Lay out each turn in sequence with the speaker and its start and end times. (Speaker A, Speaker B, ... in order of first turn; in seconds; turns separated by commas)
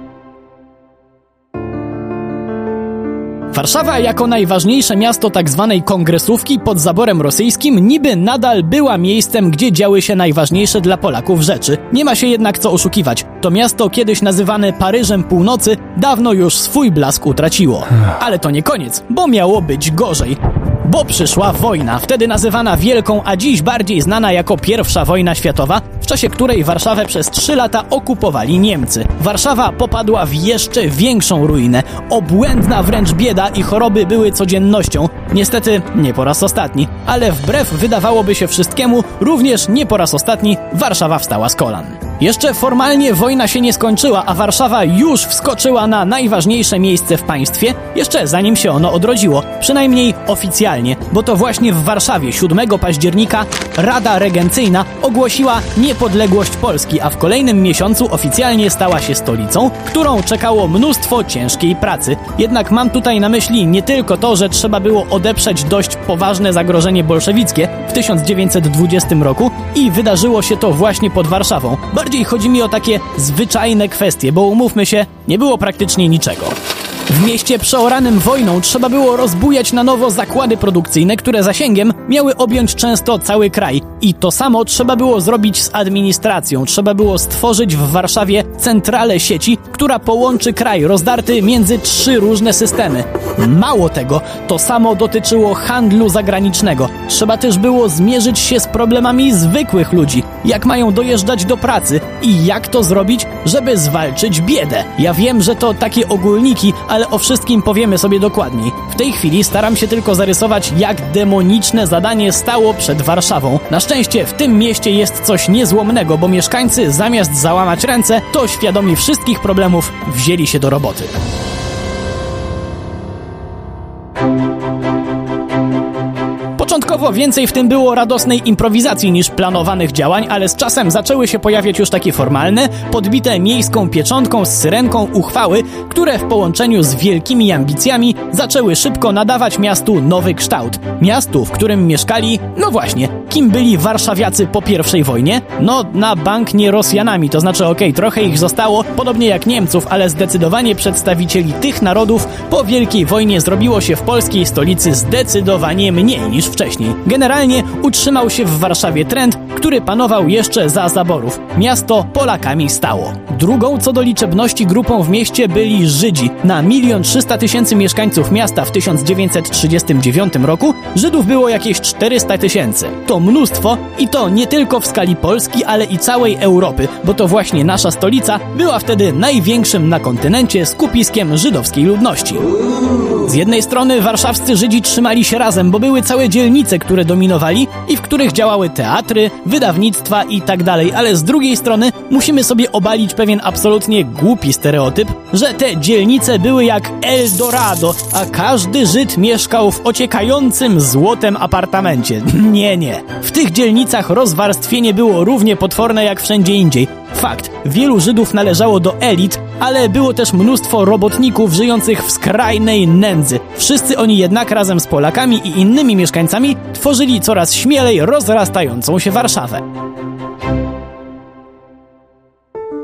Speaker A: 3.5-76.6, Speaker A: 77.1-121.2, Speaker A: 126.6-182.5, Speaker A: 183.2-219.7